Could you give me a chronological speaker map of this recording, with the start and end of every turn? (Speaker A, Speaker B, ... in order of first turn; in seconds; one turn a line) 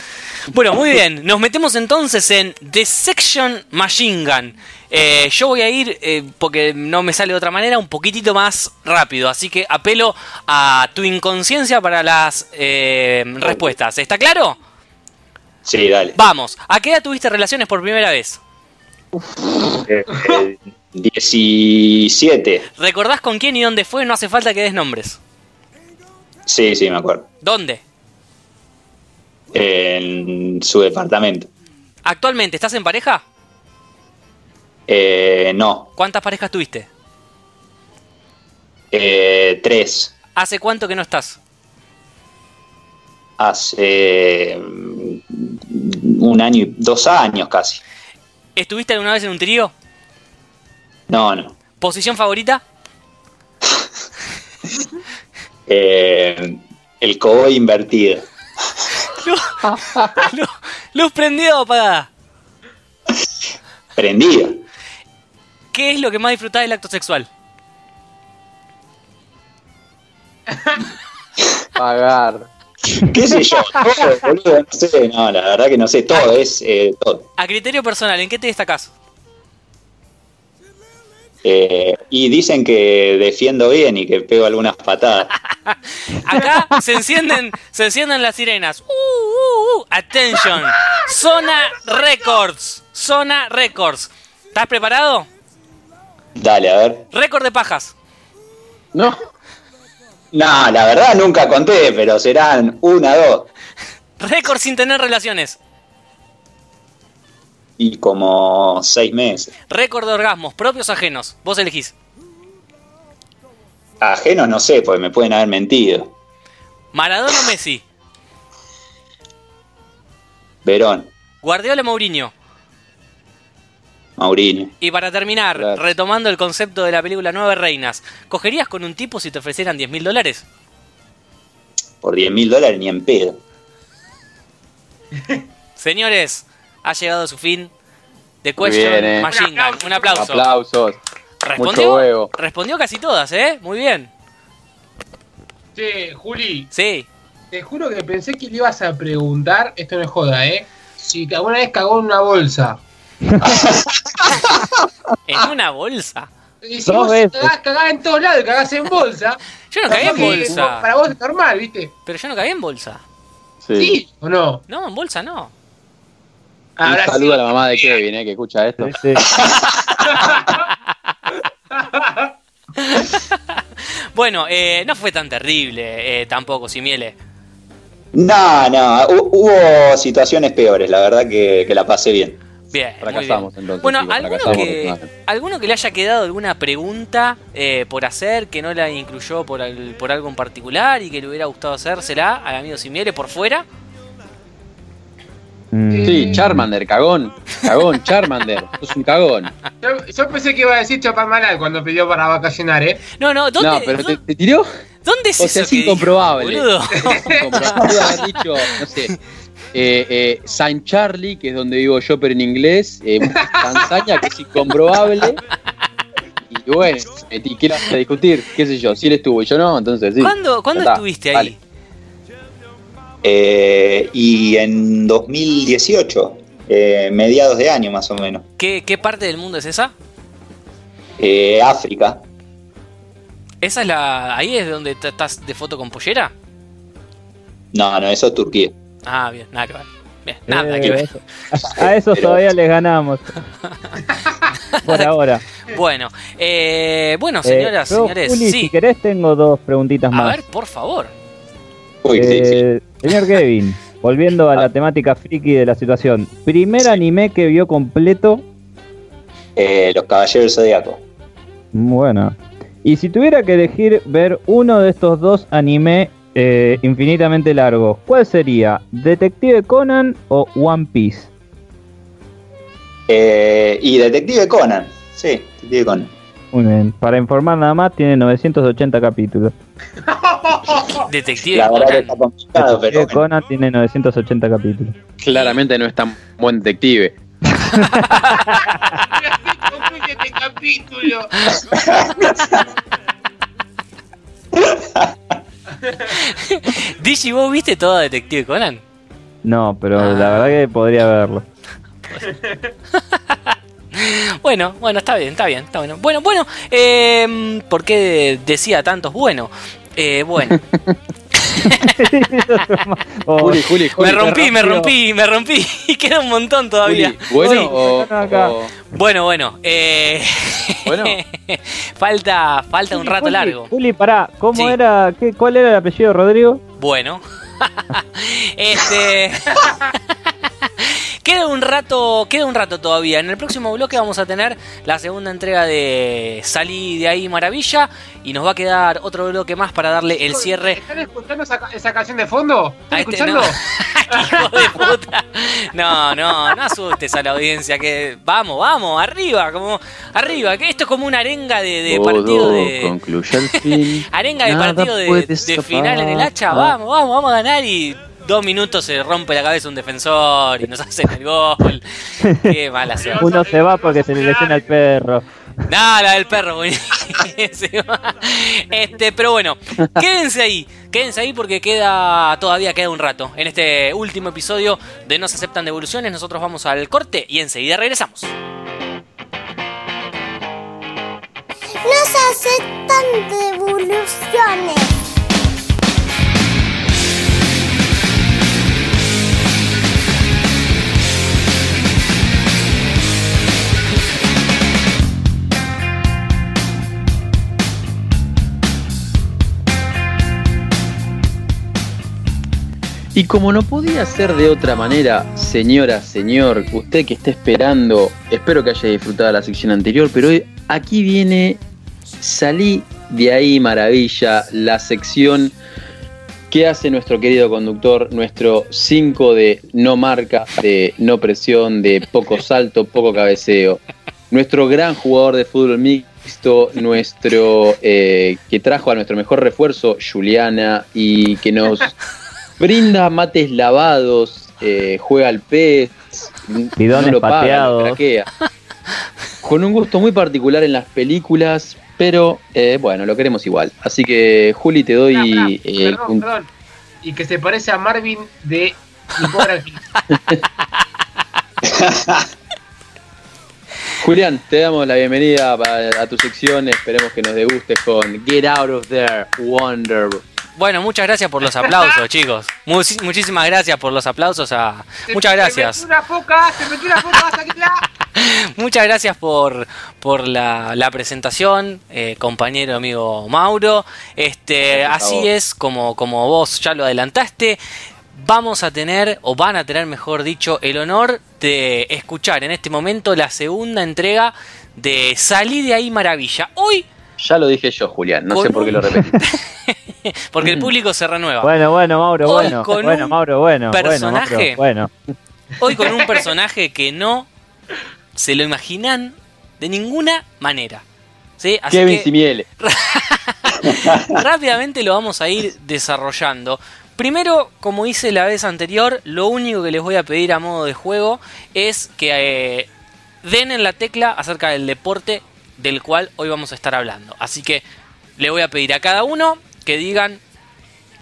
Speaker A: 0.5-14.6
Speaker B: 15.6-16.2
Speaker A: 16.1-18.4
Speaker B: 19.7-22.6
Speaker A: 22.8-25.2
Speaker B: 26.5-27.2
Speaker A: 27.4-27.8
Speaker B: 29.5-31.5
Speaker A: 32.0-33.2
Speaker B: 34.9-35.9
Speaker A: 36.0-36.9
Speaker B: 38.9-40.1
Speaker A: 40.4-41.4
Speaker B: 43.4-47.8
Speaker A: 48.5-49.7
Speaker B: 51.1-51.5
Speaker A: 51.8-52.6
Speaker B: 55.7-58.2
Speaker A: 59.1-62.1
Speaker C: 59.6-60.2
Speaker B: 64.0-64.6
Speaker A: 65.7-67.3
Speaker C: 71.8-72.5
Speaker B: 72.9-77.2
Speaker A: 77.4-78.9
Speaker B: 81.4-85.3
Speaker A: 85.7-95.3
Speaker B: 96.4-97.0
Speaker A: 97.1-97.9
Speaker B: 100.3-103.5
Speaker A: 104.2-105.6
Speaker B: 107.8-109.5
Speaker A: 109.7-111.9
Speaker B: 114.0-116.1
Speaker A: 116.9-117.8
Speaker B: 120.6-121.1
Speaker A: 121.4-122.3
Speaker B: 124.2-124.7
Speaker A: 124.8-130.4
Speaker C: 125.6-125.8
Speaker B: 132.0-133.4
Speaker D: 135.2-135.4
Speaker A: 135.8-137.7
Speaker A: 138.4-140.4
Speaker C: 138.6-139.3
Speaker D: 139.3-140.3
Speaker C: 140.1-141.0
Speaker A: 141.4-144.1
Speaker C: 141.6-142.3
Speaker D: 145.8-146.7
Speaker A: 146.7-147.1
Speaker D: 147.5-152.8
Speaker B: 153.4-154.8
Speaker A: 155.3-156.3
Speaker D: 156.6-161.9
Speaker E: 156.8-157.5
Speaker A: 159.7-160.9
Speaker C: 160.0-160.6
Speaker A: 162.1-163.0
Speaker C: 163.6-163.9
Speaker D: 163.8-164.6
Speaker A: 164.7-165.5
Speaker D: 166.8-168.0
Speaker C: 166.8-169.0
Speaker E: 168.8-169.2
Speaker B: 169.2-170.3
Speaker D: 170.1-170.6
Speaker D: 171.7-172.3
Speaker A: 172.8-173.6
Speaker A: 174.1-177.2
Speaker B: 178.1-182.4
Speaker A: 182.7-193.6
Speaker C: 183.0-185.1
Speaker E: 195.7-196.7
Speaker D: 195.9-196.5
Speaker C: 196.0-199.5
Speaker D: 199.8-203.0
Speaker A: 203.2-204.2
Speaker C: 203.6-204.7
Speaker A: 205.0-208.7
Speaker C: 205.4-209.1
Speaker D: 207.1-207.4
Speaker C: 209.7-215.4
Speaker D: 213.3-213.8
Speaker C: 216.5-221.5
Speaker A: 220.2-221.6
Speaker B: 223.2-228.4
Speaker A: 228.6-229.9
Speaker B: 231.2-232.2
Speaker A: 233.6-236.3
Speaker B: 237.7-238.7
Speaker A: 239.0-241.1
Speaker E: 240.5-243.4
Speaker B: 241.6-242.4
Speaker A: 244.8-245.1
Speaker E: 244.8-245.4
Speaker A: 245.7-248.7
Speaker E: 247.4-250.4
Speaker A: 250.1-251.1
Speaker B: 252.0-252.6
Speaker E: 252.1-258.4
Speaker B: 259.6-261.0
Speaker E: 261.7-271.3
Speaker B: 273.1-276.1
Speaker E: 276.5-279.5
Speaker D: 280.0-281.1
Speaker A: 281.0-282.2
Speaker B: 281.5-283.2
Speaker E: 282.6-284.9
Speaker C: 285.2-287.2
Speaker A: 287.7-288.5
Speaker D: 288.6-291.5
Speaker B: 291.7-292.6
Speaker B: 294.6-295.1
Speaker D: 295.8-296.1
Speaker A: 296.1-298.8
Speaker E: 299.4-301.4
Speaker A: 299.9-300.6
Speaker D: 302.3-302.7
Speaker A: 302.9-310.6
Speaker C: 310.5-310.9
Speaker A: 311.4-311.8
Speaker E: 311.8-314.9
Speaker C: 313.4-314.2
Speaker A: 314.0-317.7
Speaker C: 316.8-318.7
Speaker E: 317.4-318.5
Speaker A: 318.9-323.7
Speaker C: 320.9-321.2
Speaker E: 322.9-326.6
Speaker A: 326.8-329.8
Speaker A: 330.6-340.8
Speaker D: 340.3-343.6
Speaker A: 342.9-352.9
Speaker D: 344.1-344.9
Speaker C: 351.9-356.7
Speaker A: 353.5-363.3
Speaker E: 362.2-362.5
Speaker D: 362.9-364.7
Speaker E: 363.2-365.2
Speaker A: 365.7-378.3
Speaker F: 381.8-384.9
Speaker C: 403.1-411.6
Speaker C: 412.2-415.5
Speaker C: 416.5-431.9
Speaker C: 432.6-438.3
Speaker E: 436.8-438.0
Speaker C: 439.4-446.2
Speaker D: 445.1-446.5
Speaker D: 447.0-449.8
Speaker C: 450.1-450.4
Speaker B: 451.6-452.3
Speaker C: 454.0-460.2
Speaker A: 460.6-465.8
Speaker D: 465.1-467.8
Speaker A: 468.1-477.6
Speaker C: 474.7-475.3
Speaker A: 478.1-486.9
Speaker C: 487.2-489.1
Speaker A: 488.3-491.5
Speaker C: 490.4-490.7
Speaker E: 491.4-494.9
Speaker A: 492.2-493.1
Speaker A: 493.7-494.6
Speaker A: 495.6-497.3
Speaker A: 498.1-500.8
Speaker A: 501.4-502.1
Speaker C: 501.7-502.5
Speaker A: 502.6-512.7
Speaker B: 503.7-504.1
Speaker A: 513.2-517.6
Speaker A: 518.2-520.2